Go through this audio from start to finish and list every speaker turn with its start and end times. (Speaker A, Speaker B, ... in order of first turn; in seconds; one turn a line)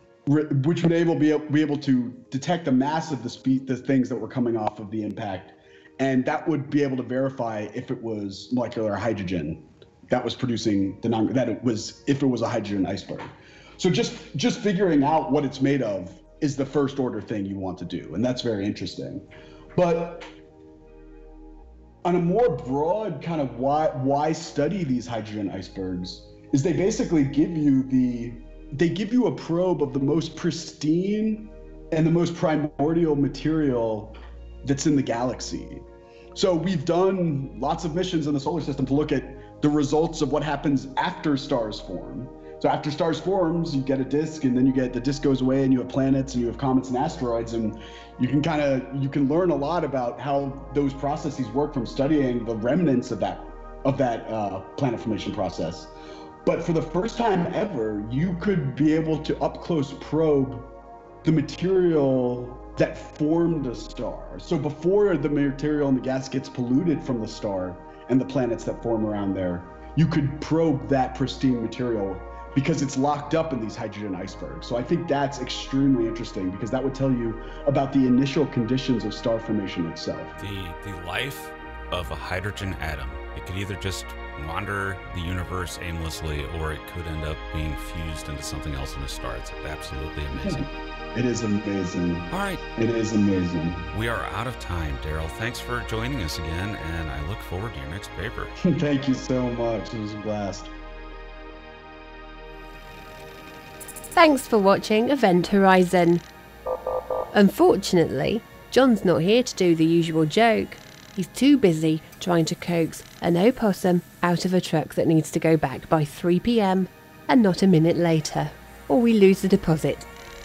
Speaker A: 0.2-19.2
Speaker A: 19.8-20.3
Speaker A: 22.0-35.8
Speaker A: 36.3-55.9
Speaker A: 56.4-60.7
Speaker A: 61.2-80.4
Speaker B: 80.4-90.7
Speaker A: 90.4-93.9
Speaker B: 92.3-92.6
Speaker B: 93.9-98.5
Speaker A: 98.6-100.7
Speaker C: 104.1-106.2
Speaker C: 107.3-120.1